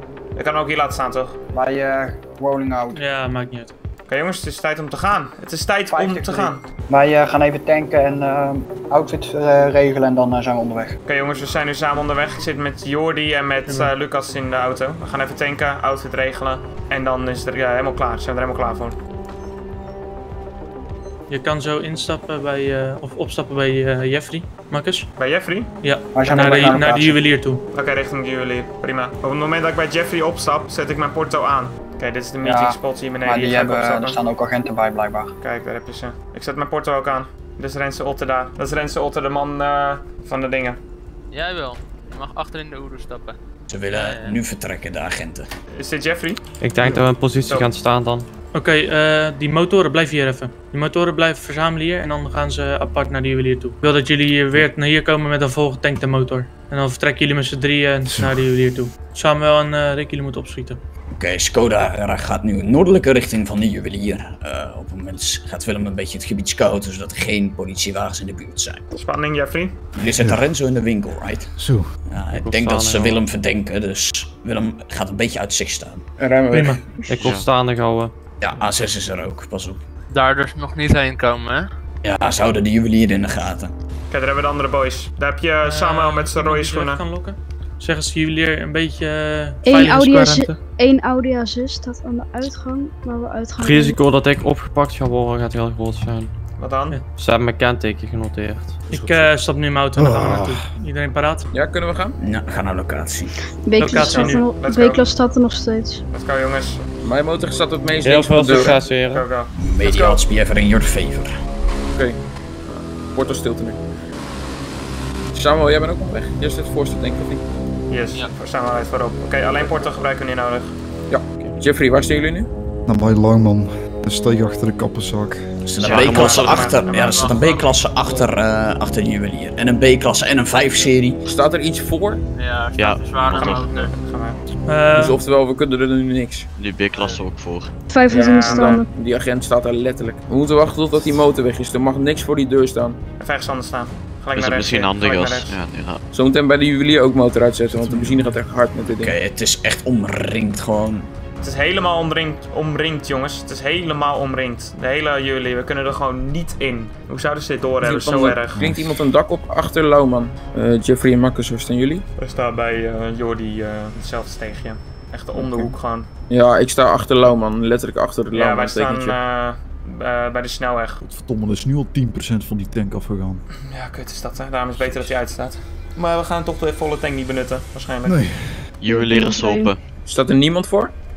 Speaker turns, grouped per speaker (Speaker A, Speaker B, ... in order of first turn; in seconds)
Speaker A: 0.3-1.4, 4.1-6.7, 11.1-18.9, 25.2-25.7, 27.7-34.2, 35.4-40.8, 45.7-46.4, 47.5-47.8, 68.9-69.8, 84.1-87.0, 96.6-97.0, 104.0-105.1, 106.1-106.8, 108.4-110.2, 117.9-120.8, 125.8-127.2, 133.3-134.4, 138.1-138.8, 143.2-145.5, 151.4-158.7, 162.2-166.1, 168.3-171.0, 173.5-178.2
Speaker B: 1.5-3.0, 5.9-11.0, 26.1-27.3, 32.4-35.3
Speaker C: 2.9-3.7, 13.7-13.9, 21.3-25.1, 25.8-27.6, 48.5-60.8, 76.5-76.8, 85.6-90.4, 98.9-101.5, 103.7-104.5, 134.6-135.2
Speaker D: 41.3-43.4, 43.9-44.4, 80.1-81.7, 126.8-127.7, 132.3-133.9, 136.9-137.2
Speaker E: 43.7-45.5, 61.1-68.9, 69.9-76.0, 78.4-79.8, 82.0-83.7, 102.2-103.3, 109.6-111.3, 125.6-131.2, 149.0-151.1
Speaker F: 46.6-48.3, 72.3-73.2, 77.1-78.1, 93.6-96.3, 97.1-98.8, 108.0-109.3
Speaker G: 46.8-47.1, 70.1-70.5, 71.6-71.9, 100.0-100.7, 122.9-125.6, 147.9-148.2, 171.0-173.4, 178.0-178.6
Speaker H: 76.2-77.1, 101.5-102.2, 107.0-108.8, 111.9-113.8, 115.3-117.4, 119.5-120.0, 121.1-122.5, 131.2-132.2, 134.9-136.5, 138.4-143.0, 146.1-149.2, 157.8-162.0, 165.3-165.7, 166.3-169.2, 180.1-180.9
Speaker I: 77.1-77.5, 125.8-126.7, 132.7-133.8, 136.5-137.8, 144.3-146.0, 178.8-179.8
Speaker J: 89.6-94.0, 103.6-106.0, 137.9-138.9, 178.9-179.7